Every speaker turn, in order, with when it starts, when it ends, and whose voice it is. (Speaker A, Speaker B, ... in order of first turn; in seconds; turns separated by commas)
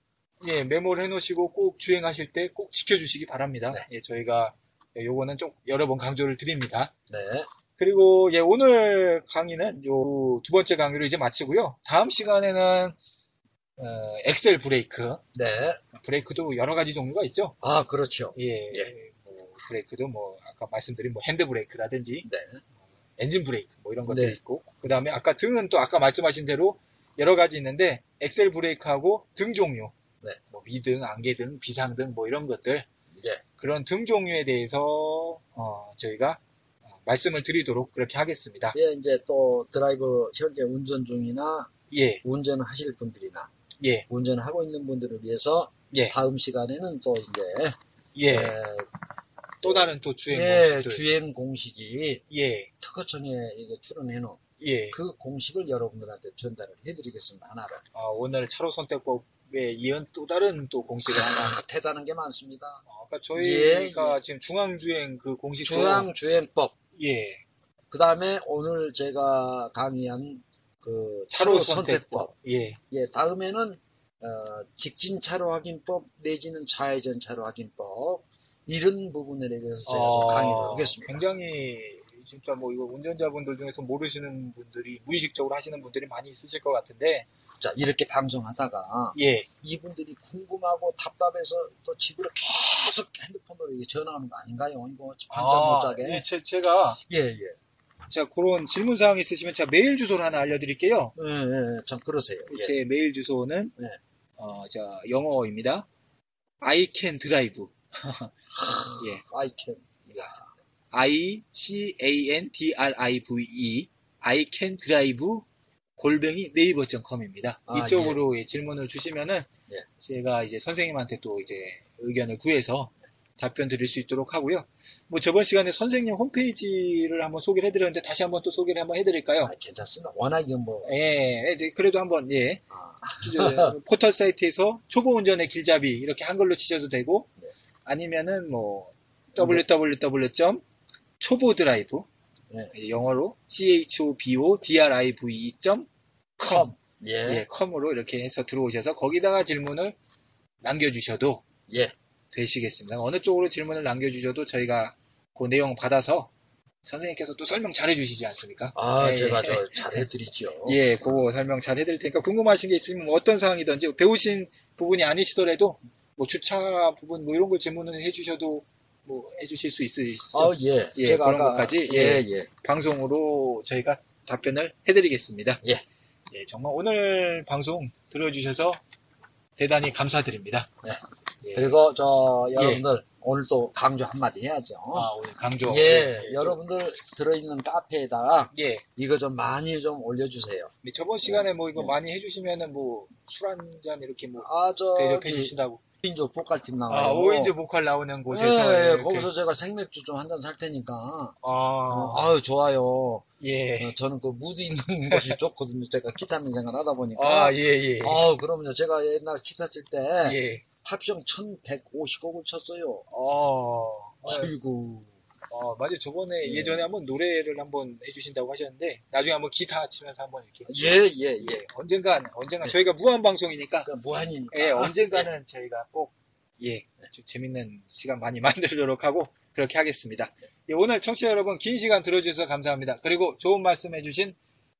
Speaker A: 0.4-6.9, Speaker B: 7.1-7.5, Speaker A: 7.8-12.9, Speaker A: 13.8-15.2, Speaker B: 15.3-15.8, Speaker A: 15.9-17.6, Speaker B: 17.6-18.9, Speaker A: 18.3-22.3, Speaker B: 22.2-22.6, Speaker A: 23.2-29.9, Speaker B: 24.1-24.4, Speaker A: 30.5-32.9, Speaker B: 33.1-33.4, Speaker A: 33.6-36.4, Speaker A: 37.0-38.8, Speaker B: 38.7-41.7, Speaker A: 41.9-42.2, Speaker B: 42.2-43.5, Speaker A: 43.8-44.0, Speaker B: 44.1-47.8, Speaker A: 48.1-48.5, Speaker B: 48.3-48.9, Speaker A: 49.6-51.0, Speaker B: 49.6-52.2, Speaker A: 52.3-52.7, Speaker B: 52.8-54.4, Speaker A: 54.6-55.0, Speaker B: 54.9-57.8, Speaker A: 57.9-61.6, Speaker B: 61.1-62.8, Speaker A: 62.9-66.1, Speaker B: 63.3-64.2, Speaker B: 65.6-66.7, Speaker A: 67.0-67.4, Speaker B: 67.9-72.3, Speaker A: 71.3-72.8, Speaker B: 72.9-81.2, Speaker A: 79.8-87.3, Speaker B: 87.6-96.2, Speaker A: 89.1-89.5, Speaker A: 95.3-97.0, Speaker B: 97.0-97.6, Speaker A: 98.1-101.1, Speaker B: 101.2-102.7, Speaker A: 102.5-103.7, Speaker A: 104.4-105.8, Speaker A: 106.6-108.3, Speaker B: 108.5-110.5, Speaker A: 110.9-115.4, Speaker A: 116.0-119.5, Speaker B: 117.7-118.2, Speaker A: 120.0-129.5, Speaker B: 129.4-130.9, Speaker A: 130.8-132.6, Speaker B: 132.7-133.8, Speaker A: 133.2-137.3, Speaker A: 137.8-140.6, Speaker B: 139.4-139.6, Speaker A: 141.2-142.1, Speaker A: 142.7-145.9, Speaker A: 146.4-146.7, Speaker B: 146.4-147.4, Speaker A: 147.2-149.9, Speaker A: 150.6-151.4, Speaker B: 151.7-151.9, Speaker A: 152.3-156.3, Speaker A: 156.8-159.8, Speaker B: 158.7-160.8, Speaker A: 160.7-175.6, Speaker B: 170.3-172.5, Speaker A: 176.3-178.8, Speaker A: 179.6-180.7, Speaker A: 181.4-181.7, Speaker B: 181.5-185.1, Speaker A: 182.6-182.8, Speaker A: 184.9-186.6, Speaker B: 185.7-190.7, Speaker A: 188.5-188.8, Speaker A: 190.8-195.8, Speaker B: 191.2-191.9, Speaker B: 194.4-197.5, Speaker A: 196.9-199.3, Speaker B: 198.3-201.3, Speaker A: 201.4-202.3, Speaker B: 201.9-203.2, Speaker A: 203.4-203.9, Speaker B: 203.8-213.0, Speaker A: 205.1-205.3, Speaker A: 207.2-208.3, Speaker A: 210.2-210.6, Speaker A: 213.1-214.5, Speaker B: 214.2-215.1, Speaker A: 215.5-223.9, Speaker B: 216.4-216.8, Speaker B: 220.7-221.6, Speaker B: 223.8-225.3, Speaker A: 224.5-234.3